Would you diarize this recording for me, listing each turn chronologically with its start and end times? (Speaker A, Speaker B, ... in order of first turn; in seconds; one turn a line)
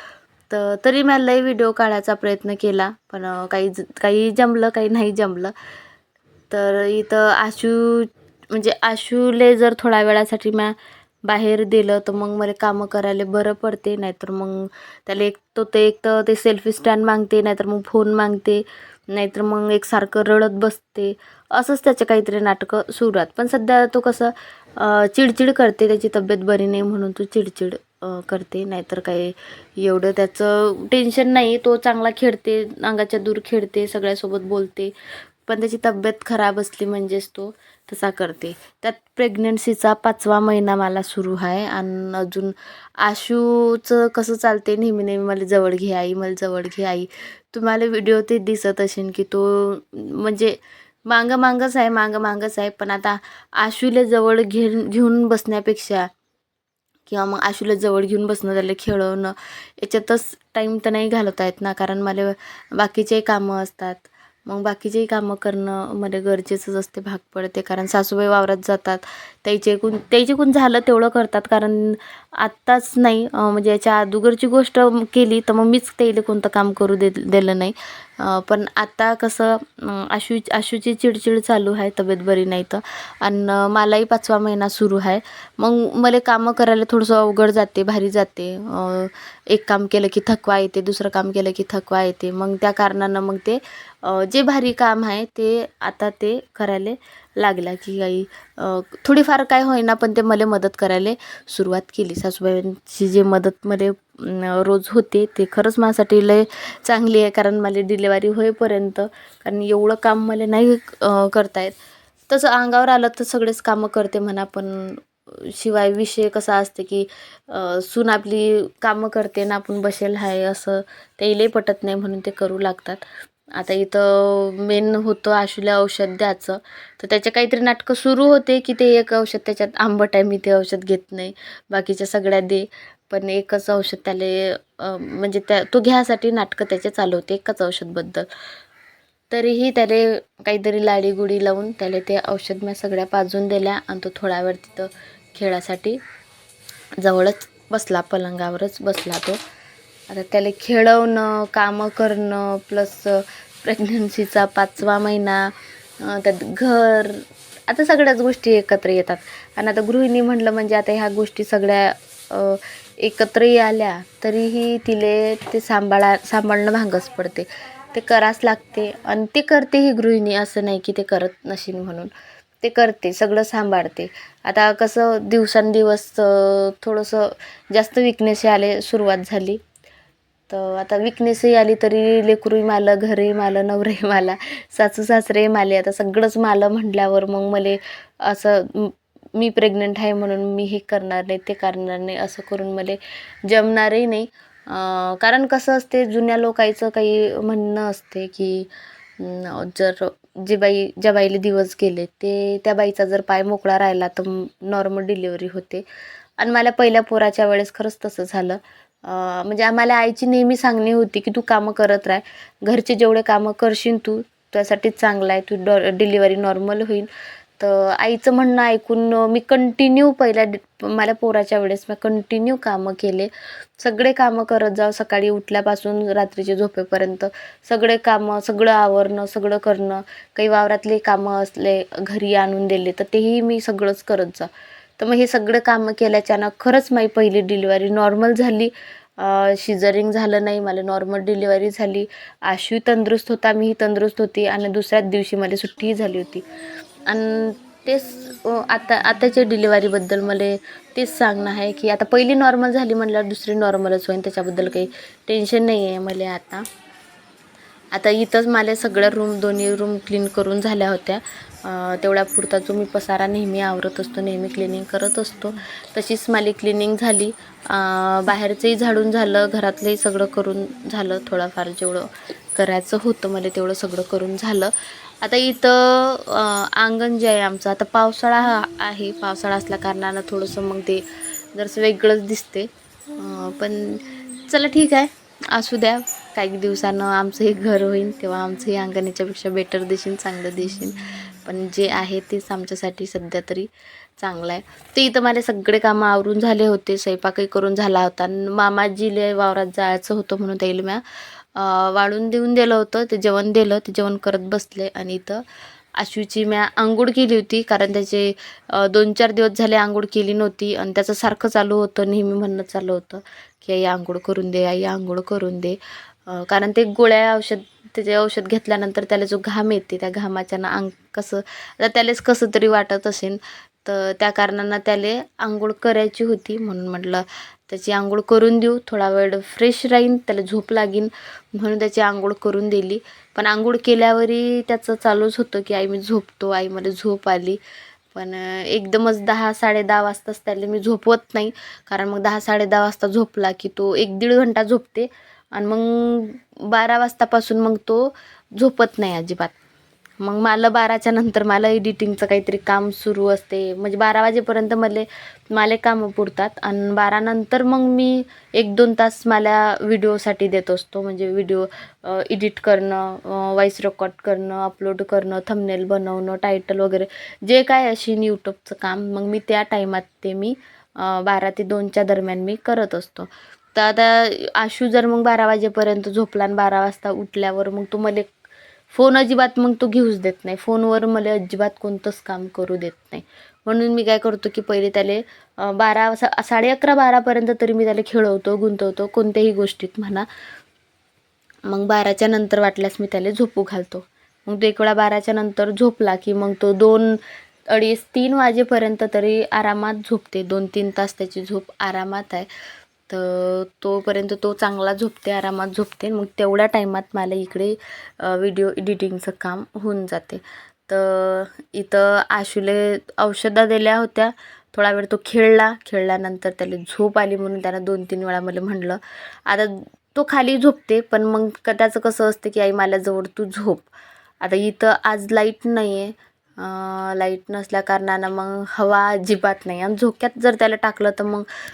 Speaker A: 0.5-5.5
Speaker A: 6.5-10.7
Speaker A: 11.3-34.9
Speaker A: 35.5-56.1
Speaker A: 57.1-111.7
Speaker A: 112.3-123.0
Speaker A: 123.5-138.3
Speaker A: 139.3-146.0
Speaker A: 147.0-149.4
Speaker A: 150.1-172.1
Speaker A: 172.6-179.6
Speaker A: 180.5-198.7
Speaker A: 199.2-205.8
Speaker A: 206.4-246.4
Speaker A: 247.1-256.6
Speaker A: 257.9-274.7
Speaker A: 275.2-281.0
Speaker A: 281.5-293.7
Speaker A: 294.2-301.0
Speaker A: 301.6-305.4
Speaker A: 306.0-315.8
Speaker A: 316.3-337.6
Speaker A: 338.1-349.6
Speaker A: 350.2-378.3
Speaker A: 378.9-390.2
Speaker A: 391.7-397.2
Speaker A: 397.7-402.5
Speaker A: 403.1-423.9
Speaker A: 424.4-431.5